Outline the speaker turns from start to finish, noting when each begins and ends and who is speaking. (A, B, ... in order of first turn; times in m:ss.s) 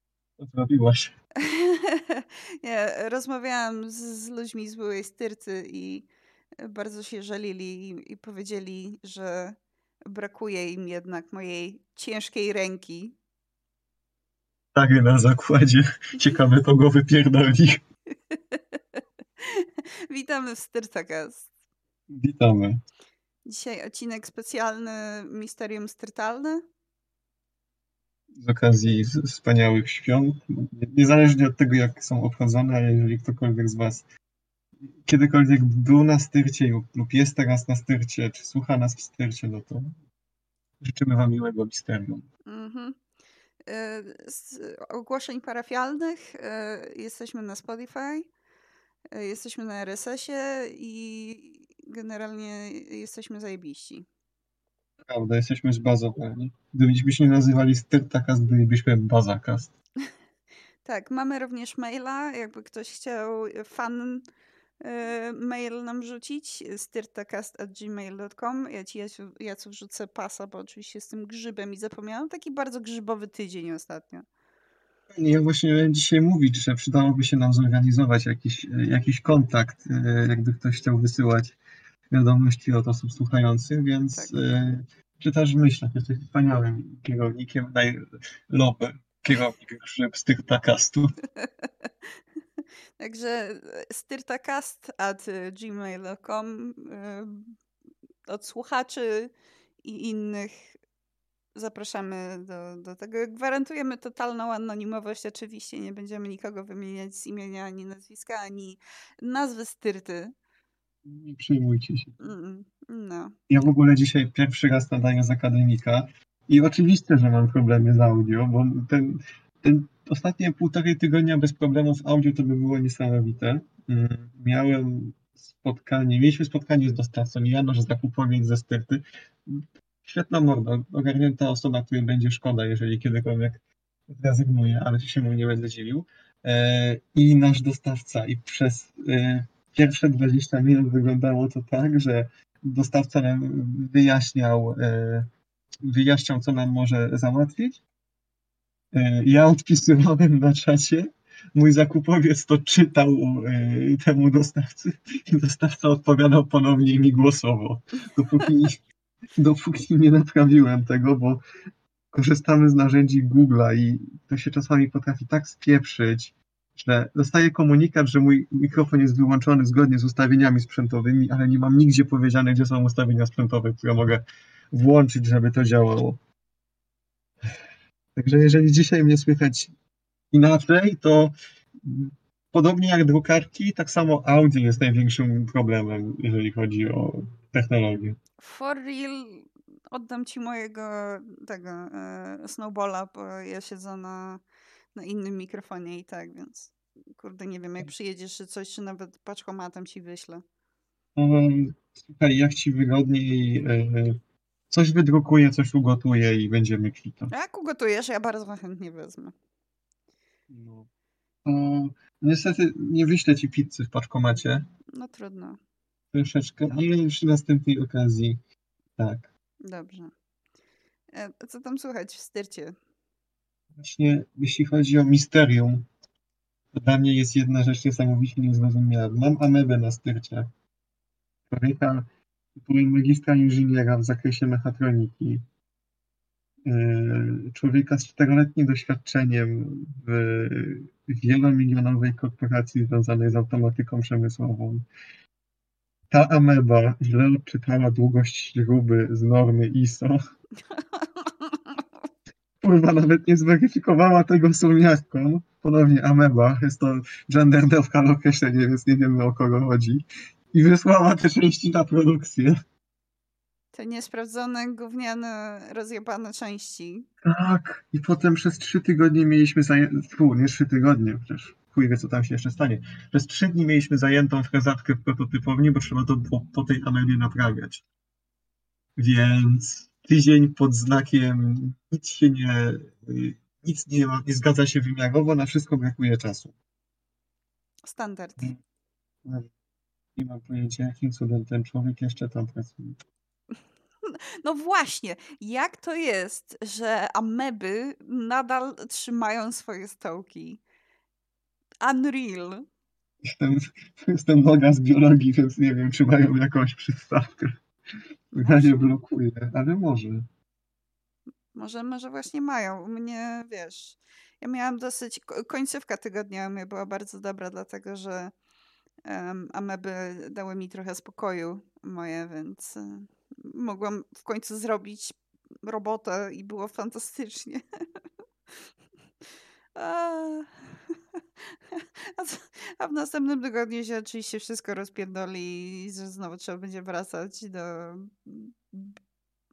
0:00.4-0:01.1 A
0:01.4-0:06.1 B
0:06.6-0:13.1 B
0:14.7-0:17.8 A
0:18.3-0:18.8 B
0:19.4-0:21.5 B
0:22.1-0:22.8 A
0:23.5-0:26.6 B
0:28.4-0:34.0 A
0:35.0-0:39.9 A
0:40.8-0:42.3 A
0:42.5-0:42.9 B
0:43.7-0:48.3 B
0:49.1-0:54.0 B
0:55.0-0:59.7 A
1:00.8-1:04.2 B
1:04.8-1:14.2 B
1:15.1-1:21.6 A
1:22.1-1:31.0 A
1:33.0-1:37.5 B
1:38.3-1:39.3 B
1:39.8-1:40.7 B
1:41.5-1:50.3 B
1:51.0-1:52.2 A
1:52.2-1:53.3 B
1:53.5-2:25.3 A
2:25.8-2:27.8 A
2:28.9-2:38.8 A
2:39.4-2:41.4 A
2:42.1-2:56.2 A
2:58.2-2:59.7 A
3:00.3-3:08.2 A
3:08.4-3:14.4 B
3:15.0-3:20.4 B
3:21.2-3:24.2 A
3:24.7-3:27.3 A
3:27.3-3:29.3 B
3:30.5-3:30.9 A
3:31.4-3:34.6 A
3:35.0-3:35.6 B
3:36.1-3:38.4 A
3:39.0-3:39.3 A
3:39.6-3:40.1 B
3:41.1-3:42.7 B
3:43.8-3:45.8 A
3:46.7-3:50.5 A
3:51.5-3:55.4 A
3:56.6-4:04.8 A
4:06.1-4:10.2 A
4:10.7-4:11.8 B
4:12.6-4:22.6 A
4:23.7-4:27.0 B
4:27.2-4:37.8 A
4:39.0-4:46.5 A
4:47.8-4:48.5 B
4:50.2-4:53.0 A
4:54.0-5:00.6 B
5:01.8-5:02.6 B
5:03.2-5:07.6 A
5:08.3-5:08.9 B
5:08.4-5:10.3 A
5:11.5-5:18.3 B
5:19.0-5:27.6 B
5:29.7-5:30.8 B
5:31.7-5:38.9 B